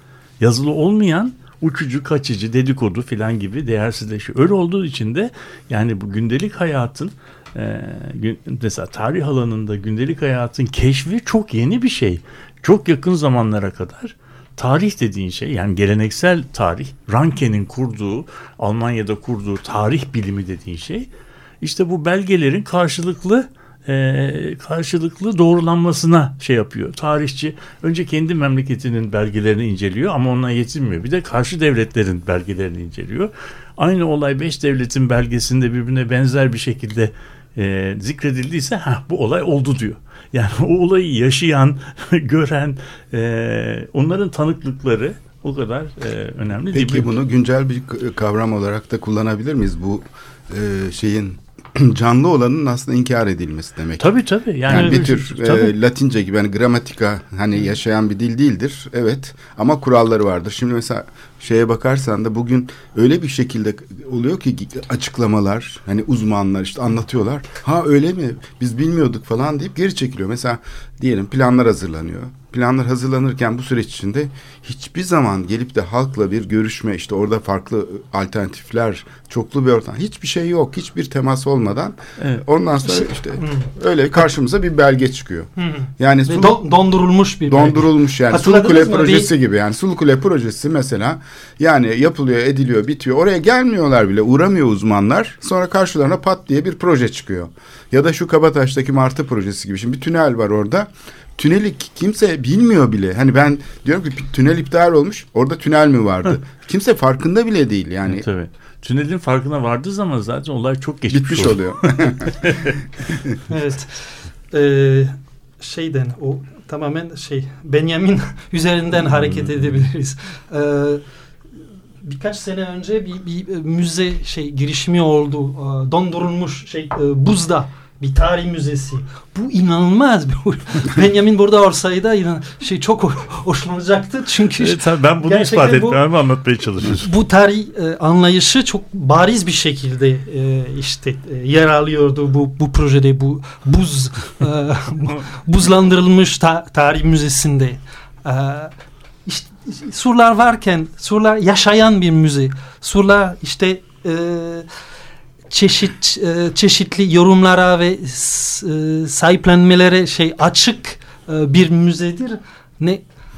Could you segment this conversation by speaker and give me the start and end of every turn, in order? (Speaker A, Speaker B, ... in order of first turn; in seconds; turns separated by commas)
Speaker A: 0.4-21.1, Speaker A: 21.6-47.1, Speaker B: 46.7-54.1, Speaker A: 54.0-55.7, Speaker B: 54.6-86.6, Speaker C: 54.7-55.0, Speaker A: 82.2-82.4, Speaker C: 82.8-83.7, Speaker C: 85.6-89.3, Speaker B: 87.5-108.2, Speaker A: 108.0-112.8, Speaker B: 111.1-112.5, Speaker B: 113.1-113.3, Speaker C: 113.5-121.0, Speaker A: 119.0-119.8, Speaker C: 122.0-136.0, Speaker A: 134.6-137.1, Speaker C: 136.9-148.7, Speaker C: 149.3-154.7, Speaker C: 155.5-163.0